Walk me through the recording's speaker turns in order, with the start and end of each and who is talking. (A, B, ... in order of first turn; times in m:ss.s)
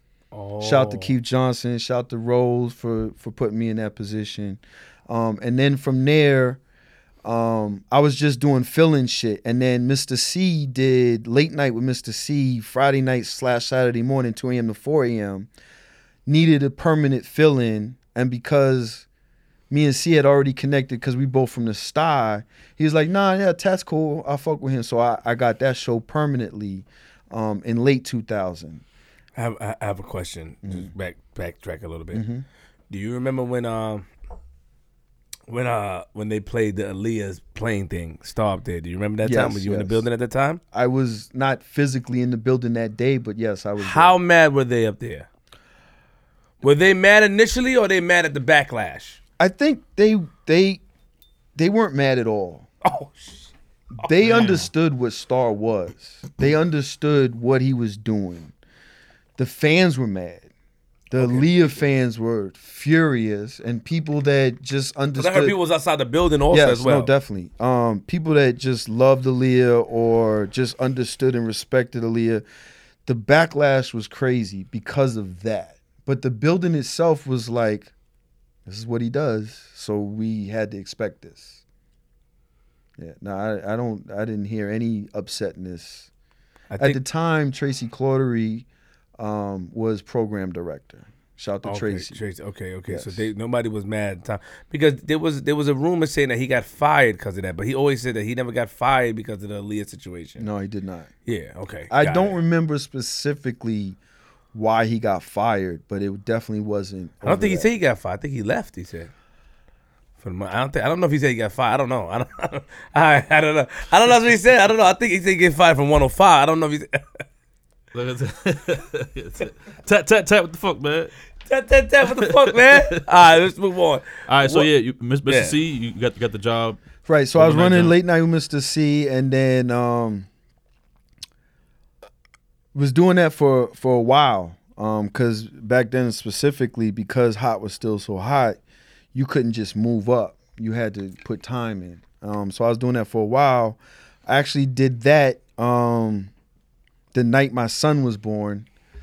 0:00.3-0:01.1 A
0:00.6-0:06.6 B
0:07.2-0:15.5 B
0:16.2-0:19.0 B
0:19.7-0:28.8 B
0:29.4-0:32.2 A
0:30.6-0:30.9 B
0:32.1-0:32.4 B
0:32.9-0:34.1 A
0:35.5-0:40.6 A
0:39.2-0:40.0 B
0:40.7-0:44.2 B
0:43.8-0:45.3 A
0:46.6-0:49.2 A
0:49.4-0:50.8 B
0:51.6-0:52.7 B
0:52.8-0:53.5 A
0:54.0-0:58.5 B
0:54.2-0:54.7 C
0:59.4-1:00.5 B
1:01.1-1:05.6 B
1:01.2-1:01.8 A
1:05.2-1:07.1 A
1:06.5-1:12.4 B
1:13.0-1:17.9 B
1:18.6-1:21.6 B
1:23.0-1:26.1 B
1:26.7-1:27.0 A
1:26.8-1:28.6 B
1:29.2-1:32.2 B
1:31.6-1:40.5 A
1:32.9-1:33.3 B
1:40.4-1:41.1 B
1:41.2-1:42.4 A
1:41.9-1:44.0 B
1:44.5-1:47.7 B
1:47.2-1:49.1 A
1:50.2-1:57.2 A
1:57.9-2:01.1 C
2:01.4-2:04.7 A
2:02.2-2:03.0 C
2:04.3-2:06.8 C
2:05.2-2:05.6 A
2:07.0-2:10.3 B
2:07.3-2:08.0 C
2:12.7-2:18.6 B
2:19.1-2:26.3 B
2:27.1-2:28.6 B